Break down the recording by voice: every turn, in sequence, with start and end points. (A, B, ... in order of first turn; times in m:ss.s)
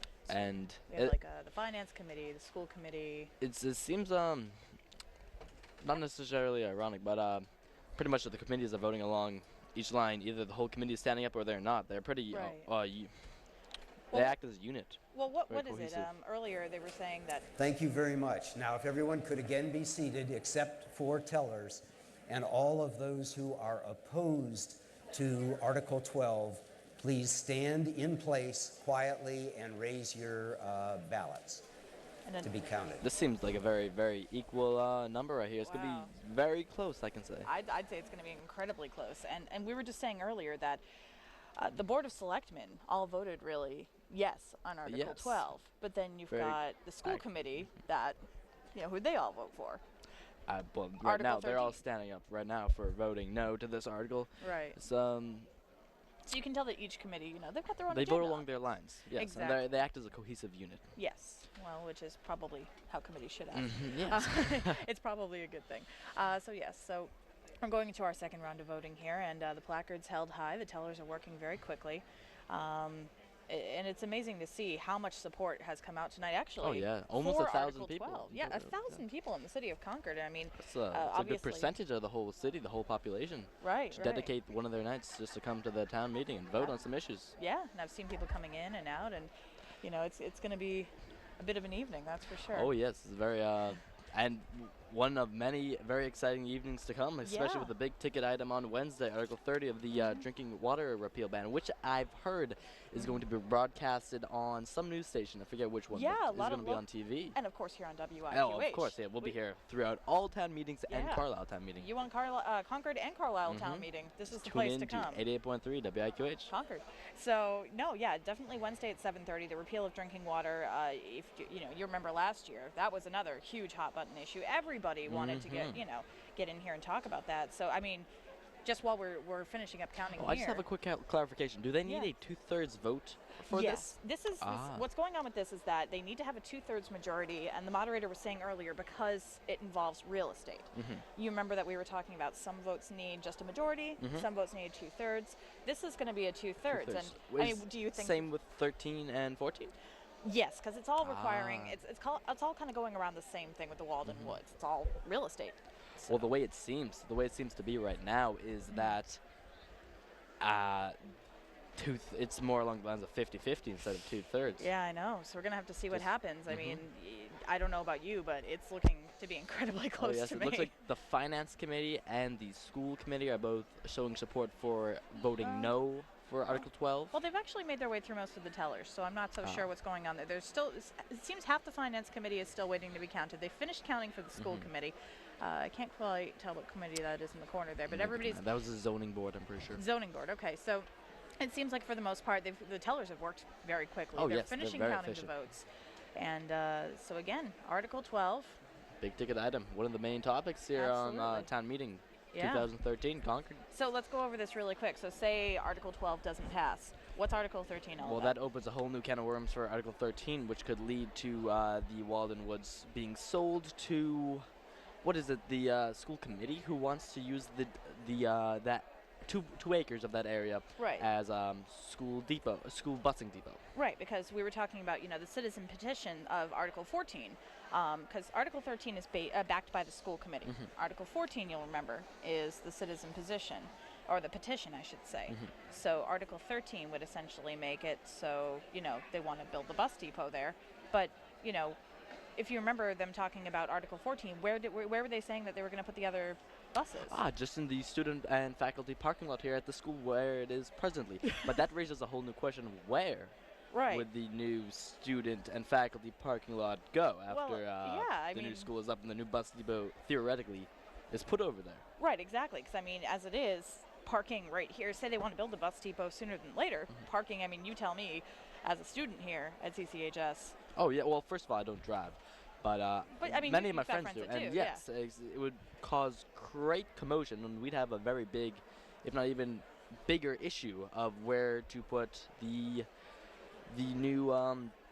0:00.2-0:03.3 A
0:00.3-0:01.1 B
0:03.4-0:04.6 B
0:05.8-0:13.1 B
0:12.3-0:12.7 A
0:14.1-0:16.1 B
0:15.1-0:17.5 A
0:17.6-0:31.6 C
0:32.2-0:32.6 A
0:32.4-0:33.0 C
0:33.0-0:37.5 B
0:35.6-0:36.1 A
0:37.4-0:40.8 A
0:41.6-0:48.2 A
0:44.9-0:45.4 B
0:46.3-0:47.3 B
0:48.7-0:49.8 A
0:50.5-0:55.5 B
0:51.0-0:51.8 A
0:54.4-0:54.8 A
0:56.2-0:58.5 A
0:57.9-1:00.8 B
0:59.1-0:59.6 A
1:01.0-1:07.1 A
1:03.5-1:04.8 B
1:07.6-1:21.7 A
1:16.6-1:18.8 B
1:20.6-1:27.3 B
1:23.6-1:24.3 A
1:27.4-1:29.3 A
1:29.8-1:32.7 A
1:32.5-1:47.3 B
1:37.2-1:37.7 A
1:39.9-1:40.2 A
1:45.9-1:49.3 A
1:48.3-1:51.8 B
1:50.9-1:51.2 A
1:51.8-1:55.2 A
1:53.5-1:56.5 B
1:56.5-2:08.1 A
2:05.0-2:05.8 B
2:08.6-2:10.6 A
2:10.2-2:14.8 B
2:11.8-2:12.1 A
2:13.5-2:28.3 A
2:20.7-2:21.0 B
2:24.0-2:24.2 B
2:26.7-2:29.7 B
2:30.2-2:36.3 A
2:31.0-2:31.8 B
2:34.0-2:34.4 B
2:36.1-2:39.2 B
2:40.4-2:41.0 B
2:41.8-2:44.6 B
2:44.6-2:50.7 A
2:45.9-2:46.8 B
2:50.0-2:57.1 B
2:55.4-2:55.7 A
2:56.5-3:08.4 A
3:04.4-3:04.7 B
3:07.9-3:09.8 B
3:09.7-3:10.9 A
3:11.4-3:18.6 A
3:14.1-3:15.3 B
3:19.0-3:23.6 B
3:20.7-3:21.5 A
3:22.3-3:22.7 A
3:23.7-3:28.4 A
3:28.0-3:34.4 B
3:35.0-3:43.6 B
3:40.8-3:41.0 A
3:43.7-4:01.8 A
4:02.4-4:07.2 A
4:07.1-4:13.3 B
4:13.7-4:14.1 A
4:13.9-4:21.8 B
4:17.3-4:18.7 A
4:22.0-4:30.6 A
4:30.8-4:42.9 B
4:33.2-4:34.8 A
4:43.7-4:44.7 B